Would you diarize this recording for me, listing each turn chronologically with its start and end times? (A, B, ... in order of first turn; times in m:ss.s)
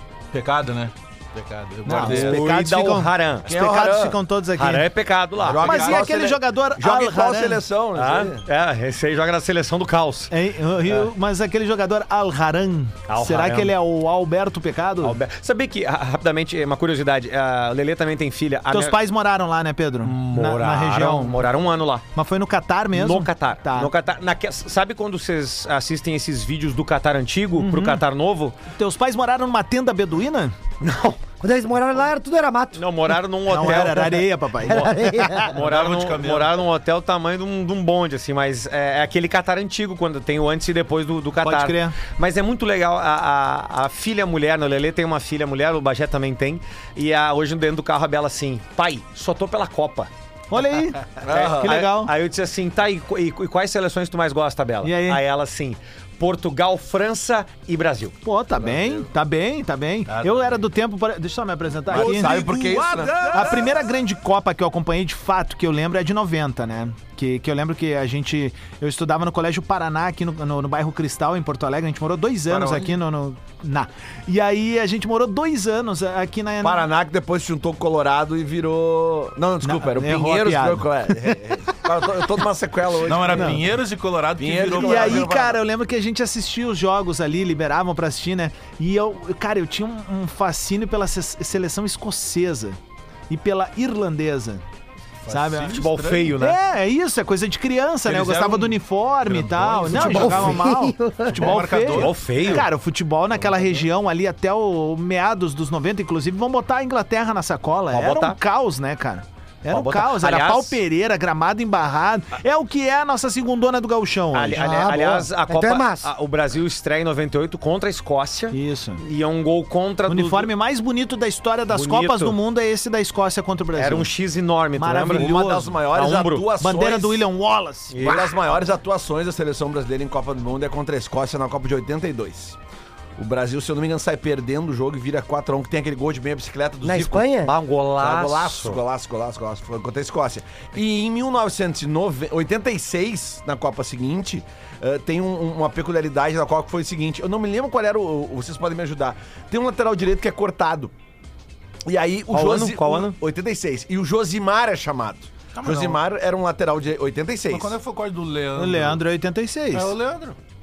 0:00.3-0:02.4 A
0:01.8-0:04.9 B
0:01.9-0:03.5 C
0:03.5-0:04.2 D
0:04.6-0:05.7 C
0:05.4-0:08.4 D
0:05.5-0:06.1 A
0:05.6-0:07.6 B
0:08.0-0:10.3 C
0:10.3-0:15.2 B
0:13.1-0:13.8 C
0:15.0-0:19.0 C
0:18.7-0:21.5 B
0:20.0-0:22.0 C
0:22.1-0:23.9 B
0:22.9-0:28.6 C
0:27.6-0:28.0 B
0:28.8-0:30.6 B
0:30.8-0:31.2 C
0:31.4-0:32.8 E
0:32.8-0:50.1 C
0:33.5-0:35.5 B
0:34.7-0:35.6 E
0:35.6-0:36.6 A
0:41.4-0:42.0 B
0:50.5-0:52.1 B
0:51.2-0:58.2 C
0:51.3-0:51.7 D
0:54.8-0:55.2 B
0:58.2-1:02.4 B
0:58.6-0:59.1 D
1:00.1-1:00.5 A
1:01.9-1:03.6 D
1:01.9-1:03.7 A
1:03.3-1:16.8 B
1:12.5-1:12.9 D
1:16.6-1:23.6 D
1:19.6-1:21.4 B
1:23.0-1:25.3 A
1:23.3-1:23.6 B
1:24.4-1:25.6 D
1:24.7-1:32.8 B
1:33.3-1:34.6 B
1:35.2-1:36.3 A
1:35.3-1:54.9 B
1:35.7-1:36.6 C
1:38.0-1:40.7 A
1:40.0-1:41.6 E
1:41.3-1:42.2 A
1:41.8-1:42.7 C
1:43.4-1:43.8 A
1:47.9-1:48.4 C
1:49.7-1:50.8 C
1:54.3-2:00.5 C
1:54.6-1:56.1 E
1:58.5-1:59.0 B
2:00.1-2:04.1 B
2:01.7-2:02.4 C
2:03.7-2:05.4 C
2:04.8-2:05.8 B
2:05.1-2:07.2 D
2:05.9-2:06.5 C
2:06.6-2:08.1 B
2:07.9-2:08.3 C
2:08.0-2:12.6 D
2:13.2-2:17.3 D
2:16.8-2:17.5 E
2:17.4-2:18.8 C
2:18.0-2:30.9 D
2:31.9-2:37.8 D
2:32.3-2:33.2 C
2:35.5-2:36.0 A
2:37.5-2:39.0 A
2:38.6-2:39.9 B
2:39.7-2:40.4 A